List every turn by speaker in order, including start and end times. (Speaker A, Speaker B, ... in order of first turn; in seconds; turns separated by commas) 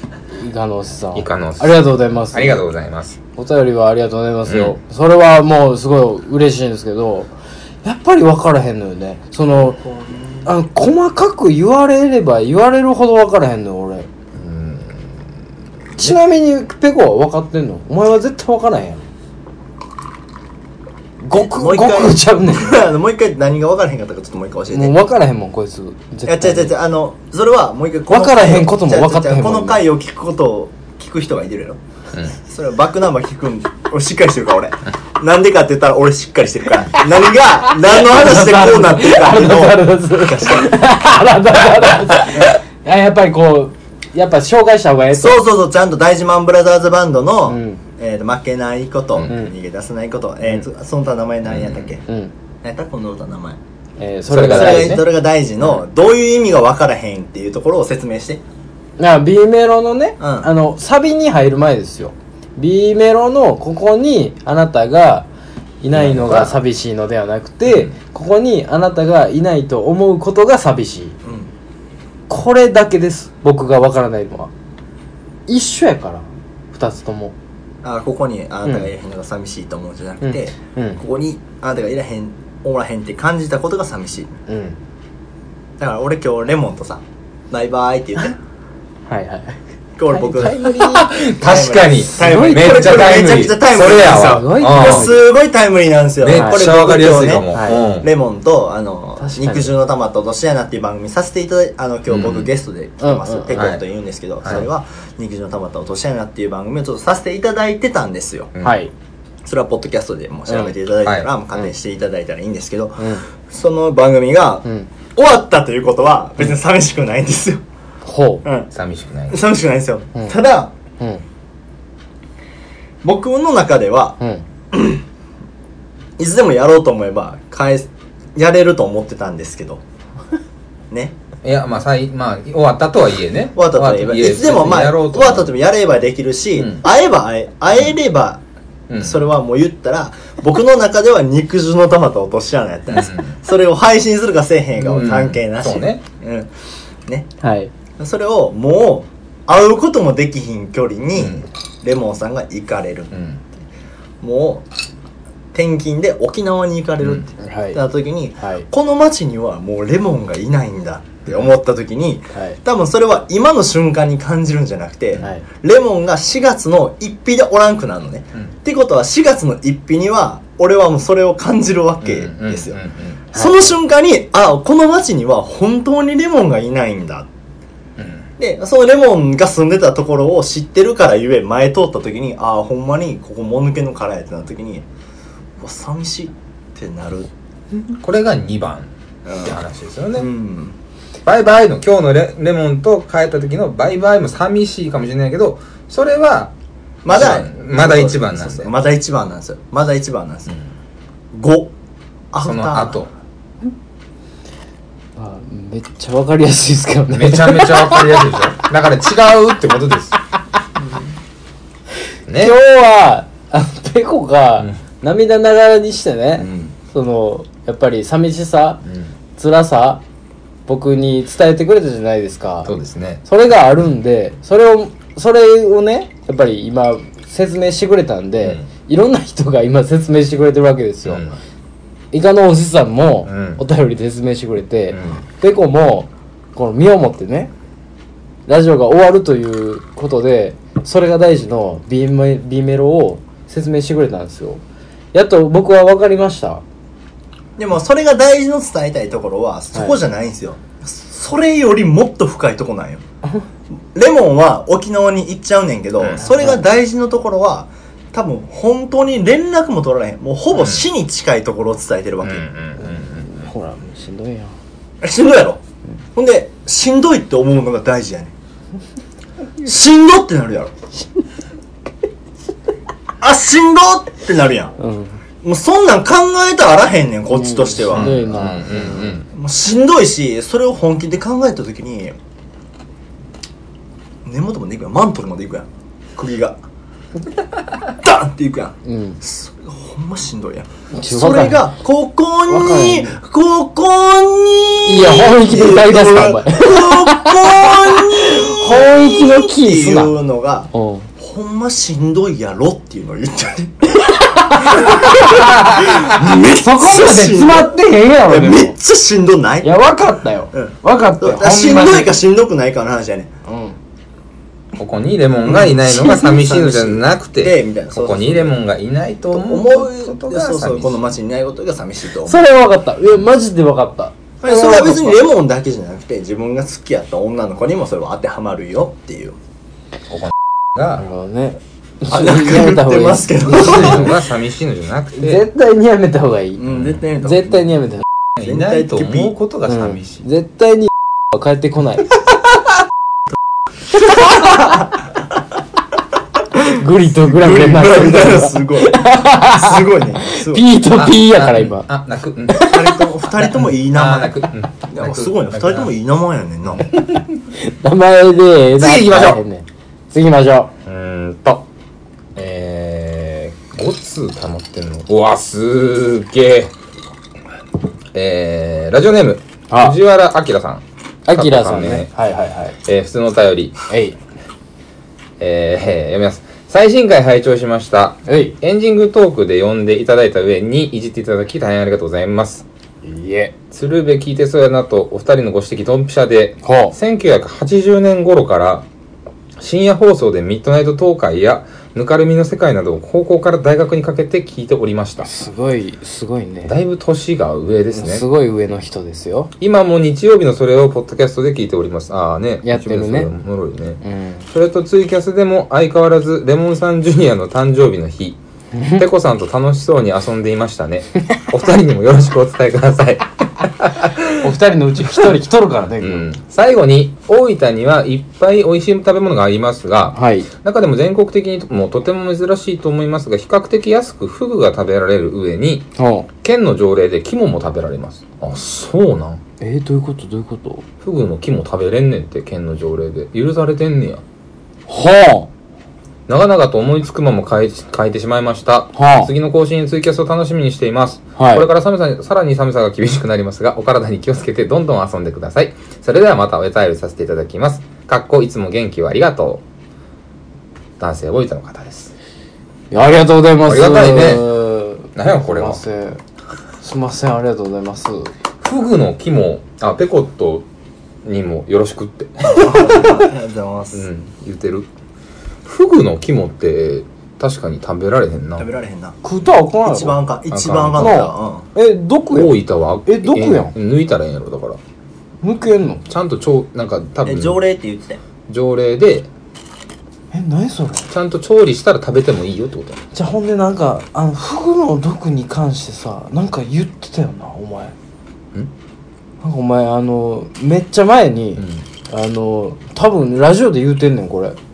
Speaker A: 0.4-2.6, Speaker B: 1.1-3.2, Speaker A: 3.4-7.3, Speaker B: 4.5-4.8, Speaker A: 7.8-9.8, Speaker C: 9.7-10.5, Speaker A: 10.4-14.1, Speaker B: 14.4-15.1, Speaker A: 16.0-19.0, Speaker A: 21.2-22.9, Speaker C: 21.3-25.0, Speaker A: 24.7-26.7, Speaker C: 26.3-31.8, Speaker A: 28.1-29.8, Speaker C: 32.4-40.8, Speaker A: 37.0-45.4, Speaker C: 45.1-52.0, Speaker A: 47.5-47.8, Speaker A: 49.3-49.5, Speaker B: 51.5-51.9, Speaker A: 52.1-52.3, Speaker C: 52.6-53.6, Speaker A: 54.0-55.0, Speaker B: 54.3-55.0, Speaker C: 54.3-58.4, Speaker A: 59.0-65.3, Speaker C: 60.2-60.5, Speaker A: 65.8-71.2, Speaker B: 65.9-66.6, Speaker B: 67.7-67.9, Speaker C: 71.2-71.5, Speaker A: 72.3-74.5, Speaker A: 75.5-77.3, Speaker C: 77.8-84.4, Speaker A: 80.2-81.0, Speaker A: 84.5-84.8, Speaker C: 85.8-88.4, Speaker A: 89.1-89.6, Speaker C: 90.0-90.7, Speaker A: 90.1-91.2, Speaker B: 90.6-95.2, Speaker C: 91.4-108.5, Speaker A: 92.2-95.2, Speaker B: 96.2-98.1, Speaker A: 96.3-96.6, Speaker A: 97.5-97.8, Speaker A: 99.2-99.7, Speaker B: 102.1-102.5, Speaker A: 103.0-103.7, Speaker B: 103.5-103.8, Speaker A: 108.6-108.9, Speaker C: 109.5-117.6, Speaker B: 111.0-111.3, Speaker A: 113.0-113.2, Speaker A: 118.1-118.4, Speaker C: 118.4-118.7, Speaker B: 118.7-119.4, Speaker C: 119.3-120.7, Speaker C: 123.0-124.2, Speaker C: 124.7-125.0, Speaker C: 126.2-129.8, Speaker B: 131.4-135.5, Speaker C: 133.6-138.4, Speaker B: 136.6-136.8, Speaker B: 138.9-139.2, Speaker C: 139.0-146.5, Speaker B: 142.9-143.4, Speaker B: 144.8-146.0, Speaker A: 147.4-147.7, Speaker C: 148.0-153.1, Speaker B: 151.2-151.5, Speaker B: 153.1-153.4, Speaker C: 154.2-154.7, Speaker C: 155.5-172.8, Speaker A: 157.4-157.8, Speaker A: 158.4-158.7, Speaker A: 162.3-162.6, Speaker A: 165.2-165.4, Speaker B: 172.0-173.2, Speaker A: 173.3-173.7, Speaker C: 173.3-177.3, Speaker B: 178.0-178.3, Speaker C: 178.4-184.9, Speaker C: 185.6-187.3, Speaker B: 188.0-188.9, Speaker C: 189.2-189.6, Speaker B: 189.4-190.3, Speaker C: 190.2-190.8, Speaker B: 191.3-196.5, Speaker C: 197.0-200.5, Speaker B: 197.1-198.7, Speaker C: 201.3-201.7, Speaker C: 202.3-203.0, Speaker B: 202.4-203.1, Speaker A: 205.2-208.4, Speaker B: 207.1-210.2, Speaker B: 212.3-212.6, Speaker A: 212.4-218.8, Speaker B: 216.4-216.7, Speaker A: 219.4-220.0, Speaker A: 220.7-222.7, Speaker B: 222.7-223.2, Speaker A: 223.2-231.2, Speaker B: 231.1-231.4, Speaker A: 232.1-237.5, Speaker B: 233.2-233.6, Speaker B: 234.9-235.2, Speaker A: 238.5-244.6, Speaker A: 245.1-246.6, Speaker C: 247.6-253.0, Speaker C: 253.9-262.5, Speaker A: 256.2-256.6, Speaker B: 260.5-260.9, Speaker B: 262.2-263.4, Speaker A: 262.8-264.5, Speaker C: 265.0-265.6, Speaker C: 266.1-268.3, Speaker C: 269.6-270.7, Speaker C: 273.2-274.8, Speaker A: 274.8-275.2, Speaker C: 275.4-278.3, Speaker A: 277.4-279.2, Speaker B: 277.9-279.3, Speaker C: 279.3-282.2, Speaker C: 284.2-286.6, Speaker C: 288.0-303.9, Speaker A: 288.9-289.2, Speaker A: 290.9-291.6, Speaker A: 292.5-293.2, Speaker A: 294.9-300.1, Speaker A: 300.7-301.1, Speaker A: 304.1-308.8, Speaker C: 304.6-309.8, Speaker A: 309.6-312.2, Speaker C: 310.5-313.3, Speaker A: 313.5-313.8, Speaker B: 314.8-321.0, Speaker C: 315.5-318.5, Speaker C: 319.3-322.4, Speaker A: 322.3-325.2, Speaker C: 324.4-329.4, Speaker B: 330.1-331.1, Speaker A: 331.0-334.1, Speaker C: 332.1-334.2, Speaker B: 333.5-335.4, Speaker A: 335.2-338.1, Speaker C: 336.6-337.7, Speaker B: 336.7-337.0, Speaker C: 338.4-339.3, Speaker B: 338.4-340.2, Speaker A: 339.7-342.1, Speaker C: 344.3-344.9, Speaker A: 346.6-351.9, Speaker C: 347.2-350.7, Speaker B: 350.9-355.9, Speaker C: 352.6-356.9, Speaker B: 356.7-357.2, Speaker A: 357.5-360.7, Speaker B: 358.8-359.4, Speaker B: 360.9-361.6, Speaker B: 362.4-366.7, Speaker B: 368.1-372.1, Speaker A: 369.7-370.0, Speaker A: 371.3-372.8, Speaker B: 372.8-373.8, Speaker A: 373.9-374.2, Speaker B: 375.4-382.7, Speaker A: 378.3-378.6, Speaker A: 383.0-383.5, Speaker B: 383.7-388.9, Speaker A: 386.6-386.9, Speaker B: 389.6-395.3, Speaker A: 395.2-396.8, Speaker B: 396.7-398.2, Speaker A: 397.9-399.5, Speaker B: 399.6-404.0, Speaker A: 402.6-403.3, Speaker A: 404.0-404.5, Speaker B: 404.5-408.4, Speaker A: 408.8-409.1, Speaker B: 409.0-414.4, Speaker A: 414.4-416.3, Speaker B: 416.0-425.9, Speaker A: 420.1-420.5, Speaker A: 426.0-426.3, Speaker B: 426.4-429.4, Speaker A: 429.6-430.9, Speaker B: 431.0-434.2, Speaker A: 434.9-435.5, Speaker B: 436.3-449.6, Speaker A: 438.9-439.3, Speaker A: 441.4-441.7, Speaker B: 451.0-452.1, Speaker A: 452.9-456.2, Speaker B: 453.7-454.5, Speaker B: 455.1-455.8, Speaker A: 456.8-458.3, Speaker B: 458.6-460.6, Speaker B: 461.2-463.3, Speaker C: 462.5-464.1, Speaker B: 463.9-464.9, Speaker B: 465.7-468.7, Speaker C: 468.6-469.2, Speaker A: 469.2-470.2, Speaker C: 469.8-471.6, Speaker B: 470.5-471.2, Speaker A: 470.9-473.7, Speaker B: 472.3-474.8, Speaker A: 475.4-476.1, Speaker B: 476.1-477.6, Speaker C: 477.2-478.2, Speaker B: 478.5-479.3, Speaker A: 480.3-481.1, Speaker B: 481.1-483.0, Speaker A: 483.1-487.9, Speaker A: 489.4-494.6, Speaker B: 491.6-491.9